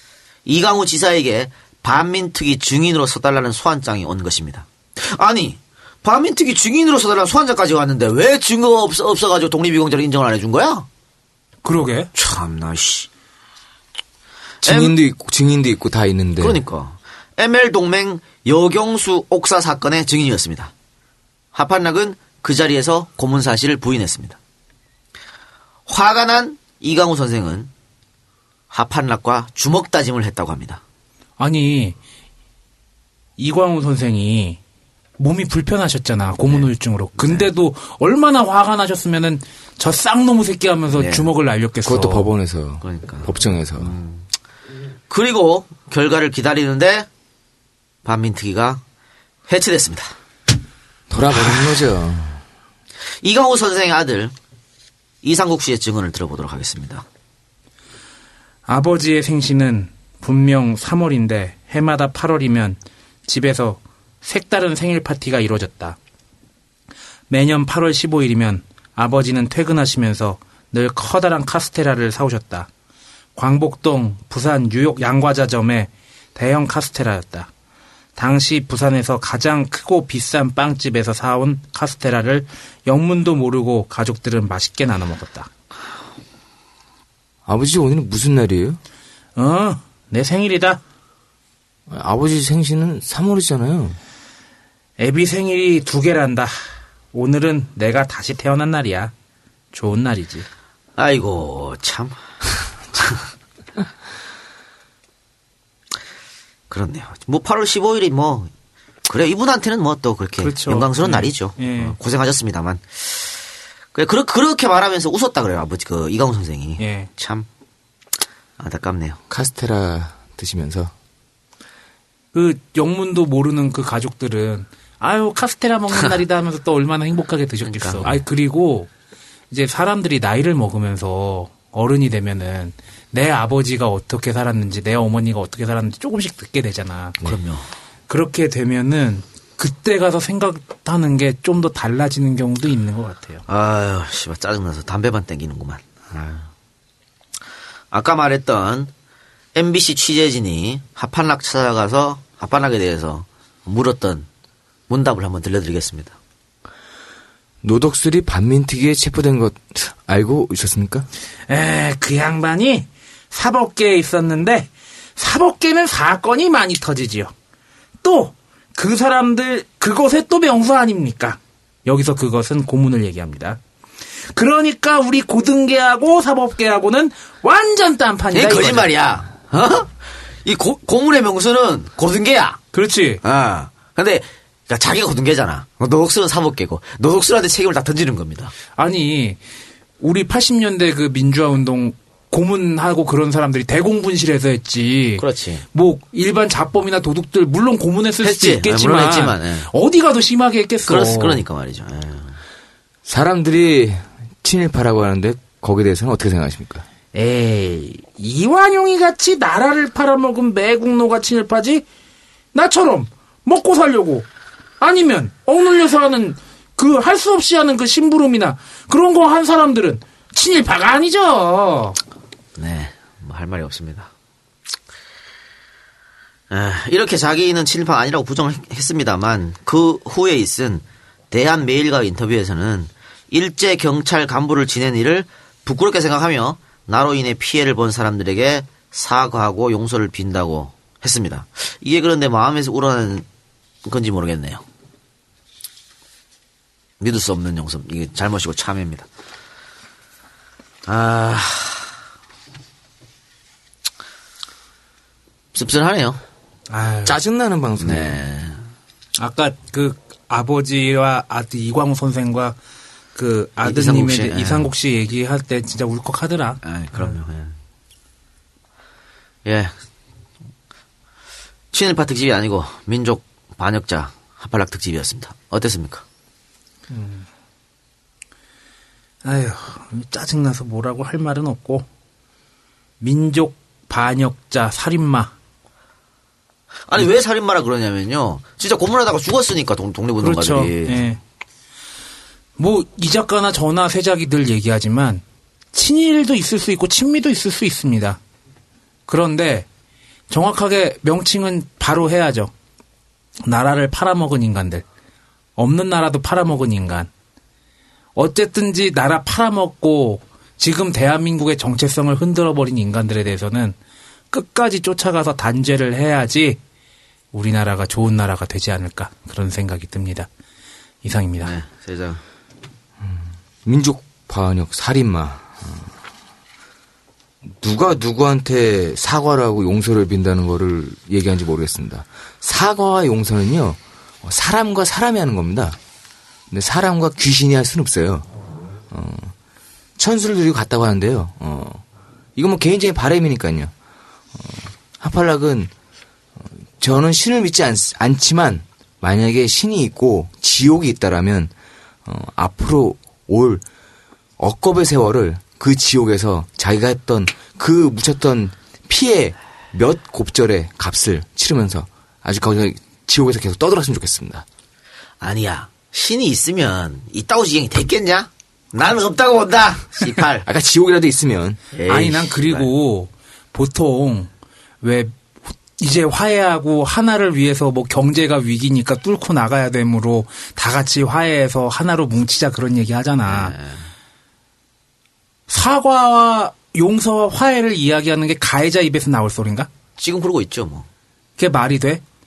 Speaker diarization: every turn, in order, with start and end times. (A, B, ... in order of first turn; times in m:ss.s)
0:00.4-0:10.9 A
0:11.6-0:12.1 B
0:12.1-0:13.1 A
0:14.6-0:15.0 A
0:14.6-0:16.6 C
0:16.4-0:20.7 A
0:21.5-0:24.4 A
0:25.9-0:27.7 A
0:28.7-0:30.8 A
0:31.4-0:32.0 B
0:33.4-0:34.6 B
0:35.2-0:42.3 B
0:36.4-0:37.5 A
0:40.9-0:41.3 A
0:41.8-0:43.9 C
0:42.8-0:44.3 A
0:45.1-0:47.1 A
0:48.0-0:48.8 A
0:49.5-0:50.1 A
0:51.1-0:52.4 C
0:53.2-0:54.3 A
0:55.2-0:57.0 A
0:58.7-1:06.0 B
1:07.3-1:12.7 B
1:13.4-1:17.5 B
1:18.2-1:25.5 B
1:27.4-1:28.8 C
1:29.4-1:30.8 B
1:31.9-1:34.0 C
1:35.0-1:36.5 B
1:37.1-1:39.1 B
1:39.7-1:40.5 B
1:41.0-1:43.3 A
1:46.7-1:48.5 A
1:49.0-1:53.4 A
1:50.4-1:51.9 B
1:53.9-1:57.4 A
1:56.8-1:57.1 B
1:58.6-1:59.2 A
1:59.3-2:00.9 C
2:02.3-2:08.9 B
2:07.6-2:08.0 A
2:09.5-2:17.2 B
2:17.2-2:17.6 A
2:18.1-2:23.4 B
2:23.5-2:26.5 A
2:27.9-2:28.9 A
2:29.5-2:34.3 A
2:34.9-2:36.2 A
2:37.6-2:41.1 C
2:41.5-2:47.3 B
2:48.0-2:53.6 B
2:54.3-2:58.9 B
2:58.3-3:02.6 A
3:02.7-3:03.2 B
3:03.2-3:08.5 A
3:08.8-3:09.4 B
3:10.0-3:21.4 B
3:15.2-3:15.6 A
3:18.2-3:19.7 A
3:20.9-3:22.4 A
3:23.0-3:26.8 C
3:27.1-3:31.8 B
3:32.5-3:34.3 B
3:34.8-3:42.0 B
3:42.6-3:44.1 A
3:46.5-4:03.2 A
4:03.8-4:04.6 A
4:07.0-4:09.1 A
4:10.8-4:11.9 A
4:15.5-4:16.2 A
4:16.7-4:17.2 B
4:17.0-4:18.2 C
4:17.8-4:18.6 A
4:19.2-4:22.6 B
4:23.1-4:27.2 B
4:23.6-4:24.7 A
4:26.6-4:27.5 A
4:29.4-4:29.7 A
4:31.7-4:36.0 A
4:36.9-4:37.2 B
4:39.2-4:41.8 B
4:43.0-4:45.3 B
4:46.9-4:51.1 A
4:50.2-4:51.2 B
4:52.6-4:58.2 B
4:59.1-4:59.7 B
5:00.3-5:02.5 B
5:03.4-5:04.8 B
5:05.6-5:07.1 B
5:08.2-5:13.8 B
5:14.3-5:16.6 B
5:17.3-5:20.3 B
5:21.0-5:21.5 B
5:21.4-5:22.2 A
5:23.0-5:25.9 C
5:27.5-5:35.8 C
5:36.5-5:38.3 C
5:38.9-5:39.3 C
5:40.0-5:41.8 C
5:42.4-5:43.7 C
5:44.3-5:45.7 C
5:46.4-5:51.5 C
5:52.0-5:53.6 C
5:54.4-6:04.4 C
6:05.2-6:10.4 A
6:10.4-6:11.6 C
6:11.7-6:12.7 A
6:11.9-6:14.3 B
6:14.8-6:23.5 B
6:23.2-6:23.9 A
6:25.5-6:29.7 B
6:30.0-6:30.9 A
6:31.4-6:32.0 B